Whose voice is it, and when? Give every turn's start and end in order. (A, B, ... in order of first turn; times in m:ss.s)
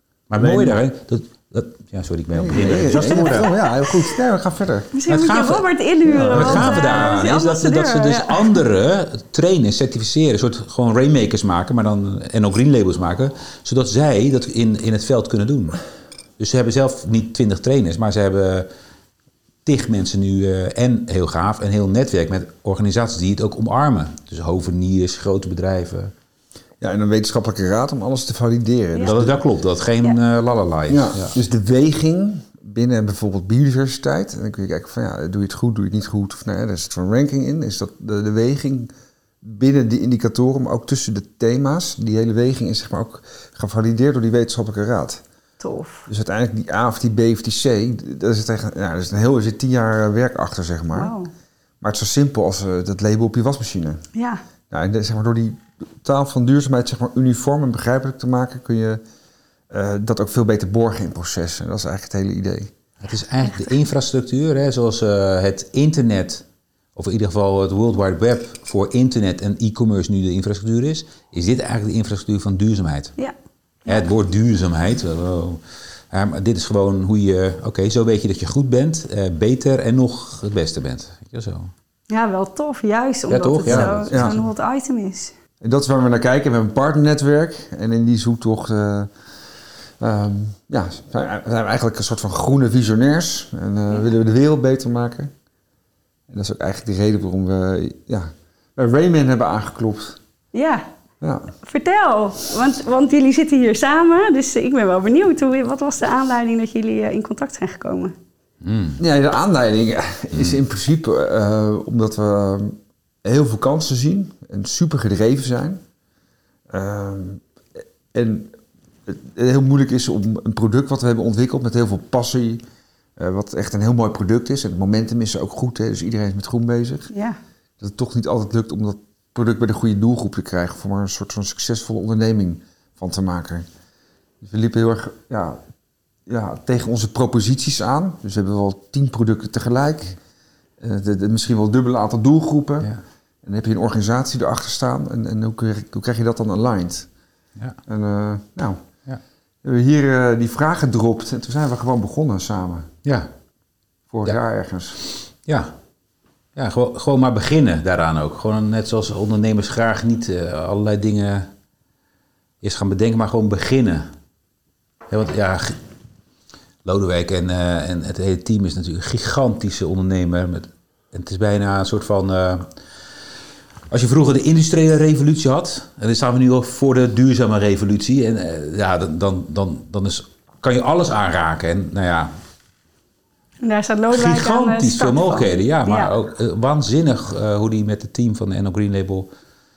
0:00.3-0:03.5 A
0:00.3-0:00.8 B
0:02.3-0:04.9 B
0:02.9-0:03.4 C
0:04.9-0:08.6 C
0:05.1-0:05.6 A
0:06.1-0:07.1 B
0:06.2-0:15.8 A
0:16.4-0:18.7 A
0:19.6-0:26.1 A
0:26.8-0:29.4 B
0:29.0-0:31.4 A
0:30.9-0:38.9 B
0:39.4-0:45.2 B
0:45.6-0:46.1 C
0:46.1-0:51.1 B
0:50.9-0:51.3 C
0:51.8-0:54.0 B
0:54.1-0:54.4 C
0:54.7-0:59.0 B
0:59.7-1:02.7 B
1:03.0-1:06.4 A
1:07.0-1:13.1 A
1:13.9-1:15.6 A
1:16.1-1:21.7 A
1:22.1-1:25.4 C
1:23.3-1:24.4 A
1:23.7-1:24.4 B
1:25.6-1:29.1 B
1:30.0-1:35.3 B
1:36.3-1:40.2 B
1:40.5-1:40.9 C
1:41.2-1:41.5 B
1:41.6-1:48.1 C
1:48.6-1:49.0 A
1:49.0-1:55.8 B
1:56.7-1:57.4 B
1:58.1-1:58.5 B
1:59.0-2:02.6 B
2:03.2-2:07.1 B
2:07.1-2:07.4 C
2:07.8-2:13.6 B
2:14.4-2:15.6 B
2:16.3-2:20.2 B
2:20.8-2:22.9 B
2:23.4-2:27.1 B
2:27.9-2:28.8 B
2:29.6-2:32.9 B
2:34.1-2:35.0 B
2:35.4-2:35.7 A
2:36.6-2:41.5 A
2:42.6-2:44.1 A
2:45.1-2:45.8 A
2:46.8-2:52.6 A
2:53.9-3:02.3 A
3:03.6-3:06.1 C
3:04.1-3:09.3 A